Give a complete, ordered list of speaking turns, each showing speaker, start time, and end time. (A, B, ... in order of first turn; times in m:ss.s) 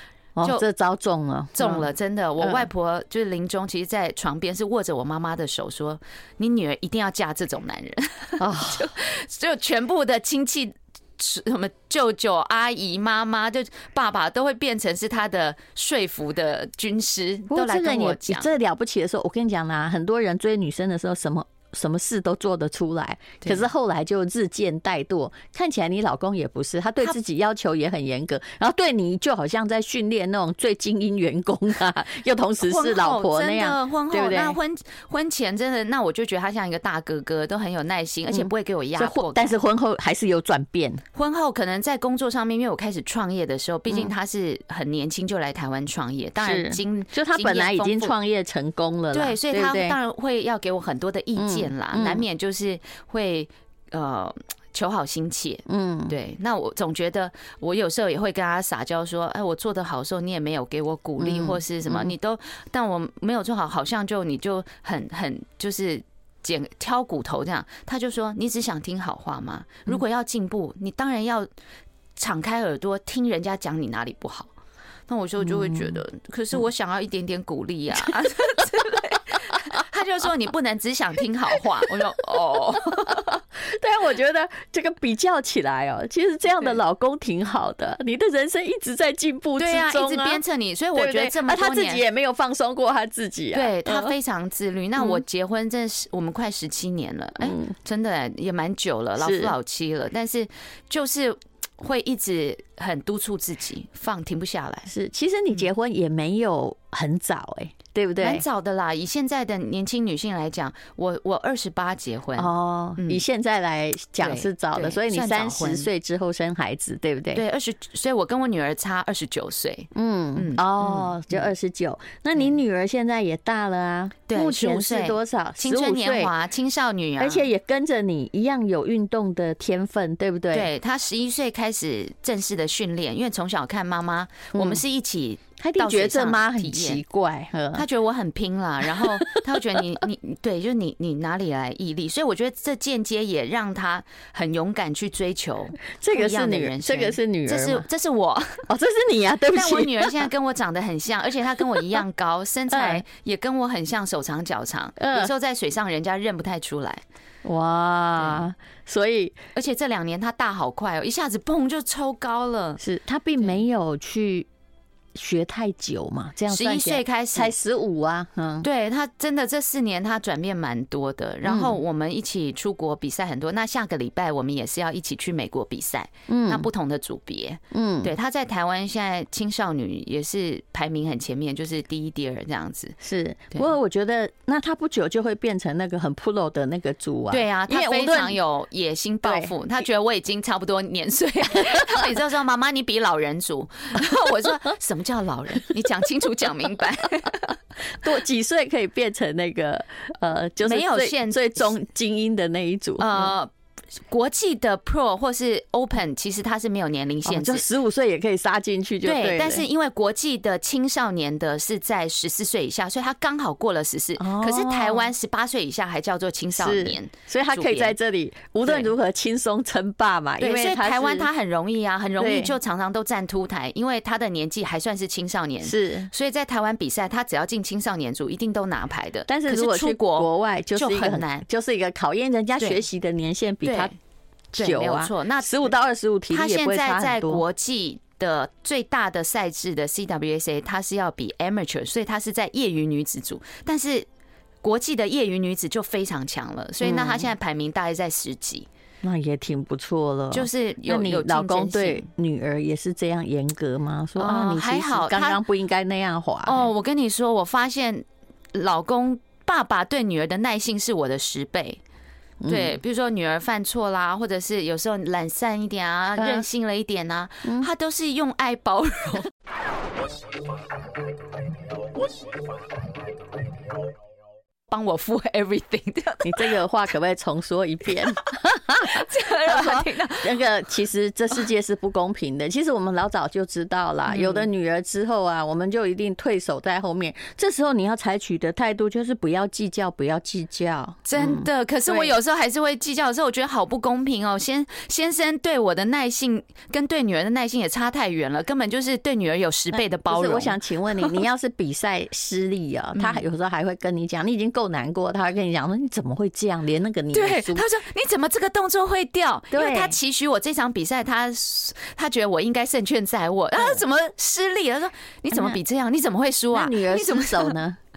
0:00.4-0:01.8 A
0:01.6-0:18.5 B
0:02.4-0:02.7 A
0:08.4-0:08.9 A
0:17.5-0:34.6 A
0:32.6-0:39.6 B
0:38.3-0:41.0 A
0:41.1-0:48.2 B
0:46.4-0:50.0 A
0:49.1-1:11.5 B
0:51.4-0:52.2 A
0:55.7-0:56.1 A
1:01.2-1:02.1 A
1:12.2-1:14.5 B
1:15.1-1:23.4 B
1:15.4-1:16.0 A
1:22.8-1:30.4 A
1:29.6-1:32.1 B
1:31.0-1:34.2 A
1:33.5-1:44.9 B
1:37.4-1:37.8 A
1:39.2-1:39.5 A
1:44.9-1:48.4 A
1:48.2-1:53.2 B
1:52.4-1:57.4 A
1:54.2-1:55.9 B
1:57.3-2:01.5 B
2:00.0-2:06.3 A
2:04.3-2:07.5 B
2:07.2-2:10.7 A
2:10.5-2:17.0 B
2:14.5-2:14.8 A
2:15.6-2:17.8 A
2:17.7-2:28.6 B
2:18.9-2:19.6 A
2:25.8-2:27.8 A
2:28.7-2:30.3 A
2:29.5-2:37.0 B
2:32.7-2:33.0 A
2:35.0-2:35.3 A
2:37.4-2:39.4 A
2:39.6-2:42.8 B
2:42.8-2:44.5 A
2:45.2-2:48.7 A
2:46.5-2:47.5 B
2:48.6-3:03.0 B
2:51.4-2:51.8 A
2:56.3-2:56.7 A
2:57.7-2:58.1 A
3:03.0-3:08.4 A
3:07.3-3:17.6 B
3:09.2-3:09.5 A
3:17.9-3:23.3 A
3:20.6-3:21.7 B
3:23.0-3:23.5 B
3:24.1-3:27.7 B
3:27.2-3:29.6 A
3:29.0-3:38.0 B
3:34.2-3:35.1 A
3:36.6-3:41.3 A
3:38.6-3:38.9 B
3:40.4-3:51.4 B
3:42.2-3:42.5 A
3:45.6-3:46.1 A
3:49.3-3:53.9 A
3:53.6-3:53.9 B
3:54.6-3:55.7 B
3:54.6-3:57.4 A
3:56.3-4:04.1 B
4:04.6-4:08.7 B
4:06.8-4:07.3 A
4:09.0-4:16.7 A
4:10.3-4:12.1 B
4:14.2-4:15.4 B
4:16.4-4:21.8 B
4:22.4-4:22.8 A
4:22.5-4:29.3 B
4:26.2-4:26.4 A
4:27.4-4:27.7 A
4:34.7-4:36.6 B
4:36.2-4:52.1 A
4:38.8-4:40.4 B
4:44.1-4:44.5 B
4:51.1-5:01.2 B
4:59.7-5:07.7 A
5:03.0-5:03.2 B
5:07.1-5:17.6 B
5:09.5-5:10.0 A
5:15.3-5:15.6 A
5:16.5-5:17.8 A